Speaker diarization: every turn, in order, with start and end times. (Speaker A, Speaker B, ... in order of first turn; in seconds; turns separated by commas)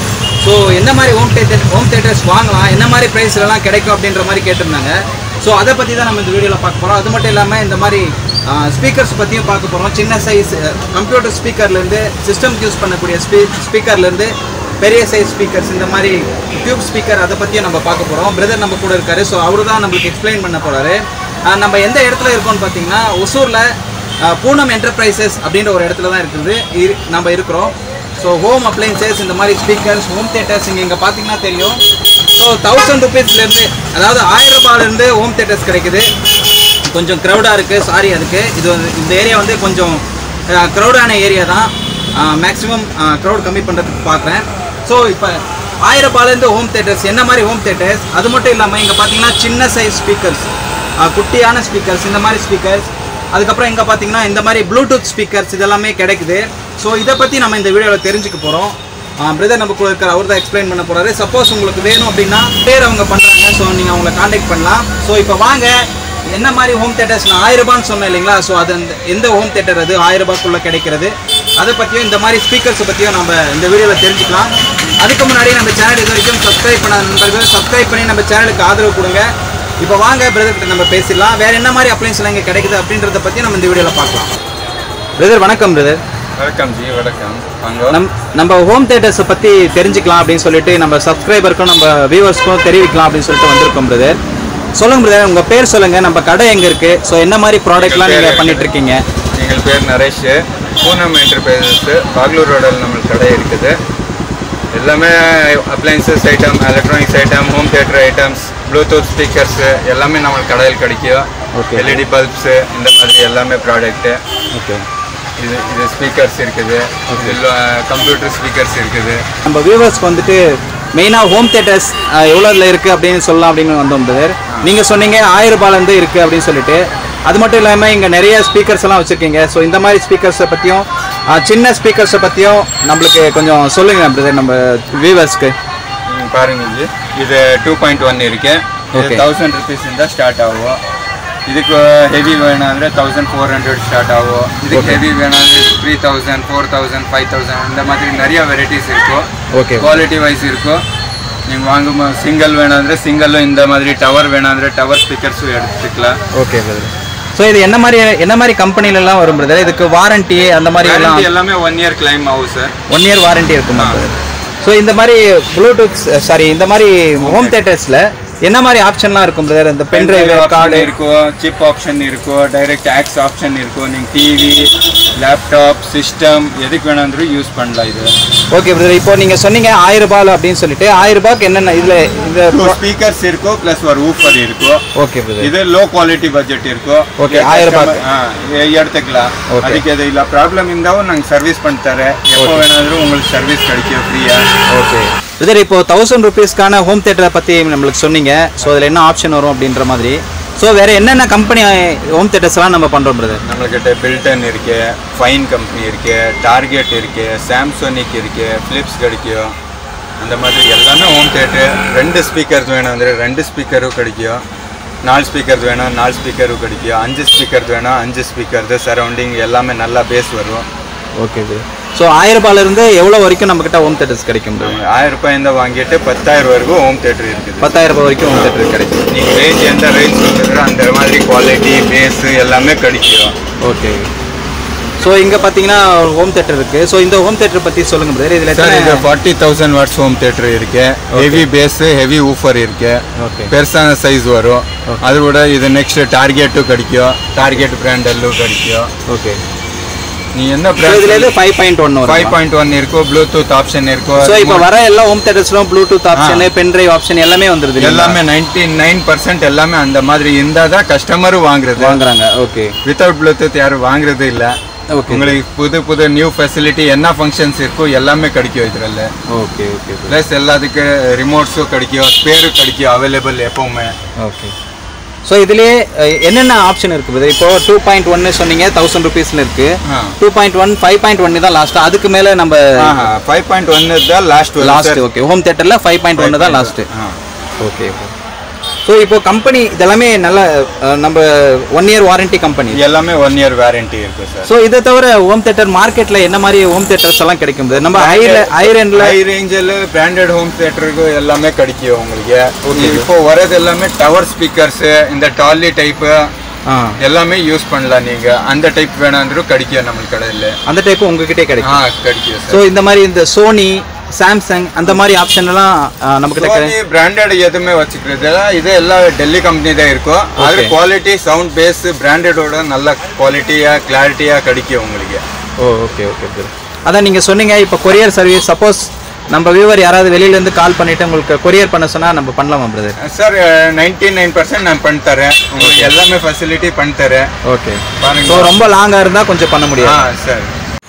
Speaker A: 0.4-23.7, Speaker A: 24.2-31.8, Speaker A: 32.4-36.1, Speaker A: 36.8-79.3, Speaker A: 79.8-84.3, Speaker A: 85.2-86.0, Speaker B: 86.4-88.0, Speaker A: 87.9-94.2, Speaker A: 94.8-99.0, Speaker B: 97.8-98.7, Speaker B: 99.3-103.8, Speaker B: 104.7-114.2, Speaker A: 111.5-112.0, Speaker A: 114.5-114.8, Speaker B: 115.4-119.2, Speaker A: 117.1-117.4, Speaker A: 119.4-120.4, Speaker A: 120.9-135.5, Speaker B: 136.1-140.8, Speaker A: 138.9-139.2, Speaker B: 141.4-150.8, Speaker A: 144.7-145.0, Speaker A: 149.5-150.0, Speaker B: 151.5-156.2, Speaker A: 156.3-161.3, Speaker B: 160.8-162.7, Speaker A: 162.9-170.9, Speaker B: 163.7-164.0, Speaker B: 167.2-167.6, Speaker B: 169.9-178.1, Speaker A: 178.5-182.8, Speaker B: 182.5-184.8, Speaker A: 184.9-185.5, Speaker B: 185.4-194.4, Speaker A: 187.2-188.0, Speaker A: 189.5-189.8, Speaker A: 192.4-192.6, Speaker A: 194.7-203.4, Speaker B: 203.4-209.5, Speaker B: 210.2-214.4, Speaker B: 215.0-220.7, Speaker A: 221.2-224.8, Speaker B: 224.6-227.7, Speaker A: 227.6-229.0, Speaker B: 228.3-228.5, Speaker B: 229.1-233.3, Speaker A: 233.6-234.1, Speaker A: 235.0-239.0, Speaker B: 238.5-248.9, Speaker A: 241.1-241.4, Speaker A: 243.2-243.5, Speaker A: 249.1-249.4, Speaker B: 250.3-251.3, Speaker A: 250.8-252.3, Speaker B: 252.1-254.7, Speaker A: 254.2-258.2, Speaker B: 256.1-256.5, Speaker B: 257.8-262.0, Speaker A: 261.8-262.8, Speaker B: 262.8-264.6, Speaker A: 264.9-265.4, Speaker B: 265.1-269.1, Speaker A: 269.3-270.2, Speaker B: 270.1-273.9, Speaker A: 274.2-274.5, Speaker A: 275.2-282.8, Speaker B: 279.8-280.2, Speaker B: 282.8-285.0, Speaker A: 284.6-286.9, Speaker B: 286.2-287.2, Speaker A: 287.6-288.1, Speaker A: 288.8-292.8, Speaker B: 292.7-294.5, Speaker A: 294.4-299.1, Speaker B: 297.9-306.3, Speaker A: 302.6-303.1, Speaker A: 306.7-307.0, Speaker B: 307.0-310.6, Speaker A: 310.7-311.8, Speaker B: 311.6-312.6, Speaker A: 312.5-316.7, Speaker B: 316.4-325.2, Speaker A: 320.4-320.7, Speaker A: 325.6-332.9, Speaker B: 333.0-337.3, Speaker A: 335.6-335.9, Speaker A: 337.4-340.0, Speaker B: 338.0-338.6, Speaker B: 339.8-340.5